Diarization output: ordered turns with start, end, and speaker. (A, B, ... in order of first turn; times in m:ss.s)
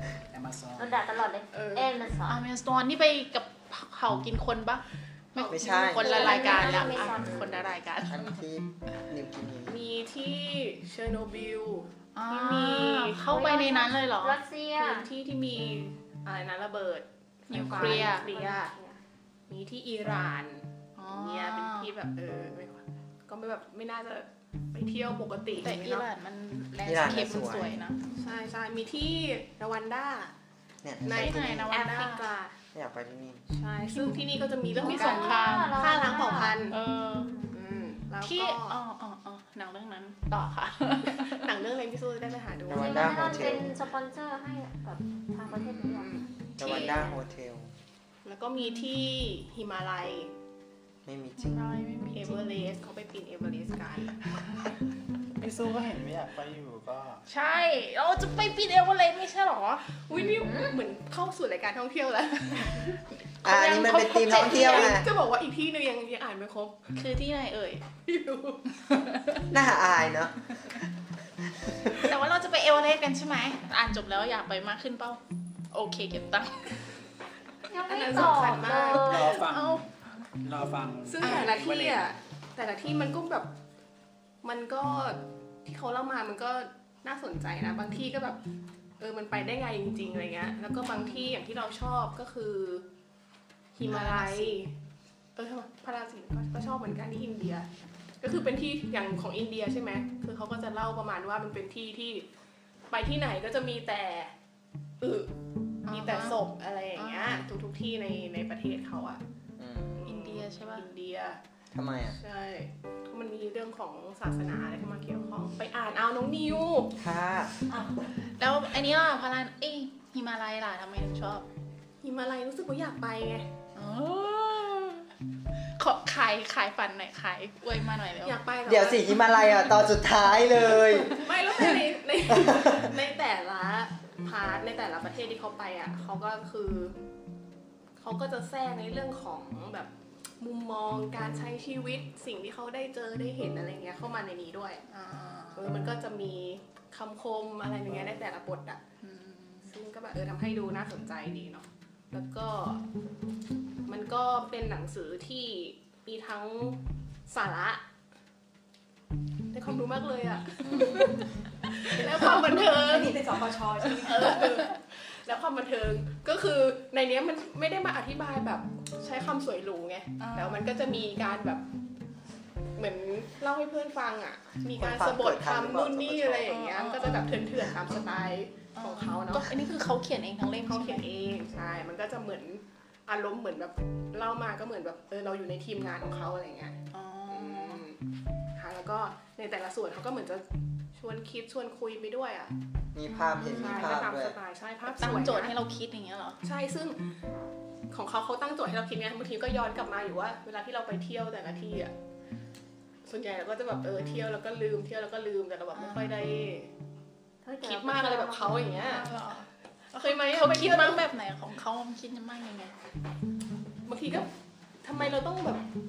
0:00.3-0:01.0 A
0:00.8-0:02.4 B
0:01.5-0:02.0 C
0:02.2-0:08.4 D
0:05.5-0:06.1 E
0:06.0-0:07.6 B
0:06.1-0:06.8 C
0:08.1-0:09.8 E
0:09.7-0:13.6 C
0:12.2-0:14.4 D
0:13.6-0:15.1 B
0:14.8-0:18.7 C
0:17.5-0:18.3 D
0:17.7-0:19.0 B
0:19.5-0:20.6 C
0:21.0-0:21.9 D
0:21.2-0:26.0 C
0:25.6-0:28.0 D
0:26.8-0:27.8 E
0:28.2-0:30.3 C
0:30.8-0:31.7 E
0:31.1-0:32.6 C
0:31.2-0:32.3 D
0:32.7-0:33.4 E
0:33.5-0:36.8 C
0:33.9-0:35.9 D
0:34.7-0:37.6 B
0:36.6-0:37.4 D
0:37.5-0:38.8 C
0:38.2-0:41.5 D
0:41.4-0:42.8 C
0:42.7-0:47.2 B
0:42.7-0:43.8 E
0:45.5-0:46.3 C
0:46.6-0:47.1 D
0:46.6-0:47.7 E
0:48.2-0:50.3 C
0:48.6-0:48.9 D
0:51.0-0:51.7 E
0:51.4-0:52.6 D
0:52.1-0:54.2 C
0:54.4-0:54.7 D
0:55.4-0:57.2 A
0:57.3-1:00.0 D
1:00.0-1:02.9 C
1:00.4-1:00.7 B
1:02.8-1:05.0 D
1:03.4-1:05.1 E
1:04.3-1:06.9 C
1:06.9-1:07.9 D
1:08.0-1:08.6 C
1:08.9-1:09.4 D
1:09.5-1:10.4 E
1:11.9-1:15.2 D
1:15.7-1:17.0 D
1:17.7-1:19.4 B
1:17.9-1:19.0 C
1:18.8-1:19.8 A
1:19.3-1:19.8 D
1:20.4-1:22.1 A
1:21.1-1:23.5 C
1:21.2-1:21.6 D
1:24.4-1:28.4 C
1:29.0-1:32.8 C
1:30.9-1:31.2 D
1:33.8-1:34.7 C
1:33.8-1:34.6 D
1:35.4-1:37.7 C
1:38.2-1:42.3 C
1:42.9-1:44.3 C
1:45.0-1:45.3 C
1:45.9-1:46.4 D
1:45.9-1:49.2 C
1:47.0-1:47.5 D
1:49.6-1:50.0 E
1:50.0-1:51.4 C
1:50.1-1:50.9 D
1:51.7-1:52.2 E
1:52.2-1:57.0 C
1:57.0-1:57.5 E
1:57.7-1:58.0 F
1:58.4-2:01.5 D
2:02.0-2:03.5 C
2:03.8-2:08.4 D
2:08.3-2:09.0 C
2:08.7-2:11.3 E
2:10.8-2:11.8 D
2:11.2-2:17.0 C
2:12.4-2:12.8 E
2:18.0-2:24.8 C
2:24.9-2:25.7 D
2:25.6-2:28.8 C
2:29.0-2:29.8 D
2:29.7-2:32.8 C
2:33.9-2:37.8 C
2:39.5-2:43.1 C
2:41.8-2:44.8 F
2:44.0-2:51.6 C
2:50.2-2:50.8 D
2:52.8-2:59.4 C
2:54.7-2:56.5 E
2:56.5-2:57.5 D
2:58.7-3:01.1 D
3:00.7-3:06.8 C
3:06.9-3:07.9 D
3:07.3-3:08.0 C
3:08.6-3:10.4 C
3:11.0-3:12.6 C
3:13.0-3:14.4 E
3:13.4-3:14.0 D
3:13.6-3:15.5 C
3:14.9-3:16.4 D
3:16.4-3:17.0 C
3:17.9-3:21.9 C
3:23.0-3:26.7 C
3:25.7-3:26.2 D
3:27.4-3:28.9 B
3:27.6-3:29.1 C
3:28.8-3:32.7 D
3:30.0-3:31.0 C
3:33.9-3:34.3 C
3:34.8-3:35.6 C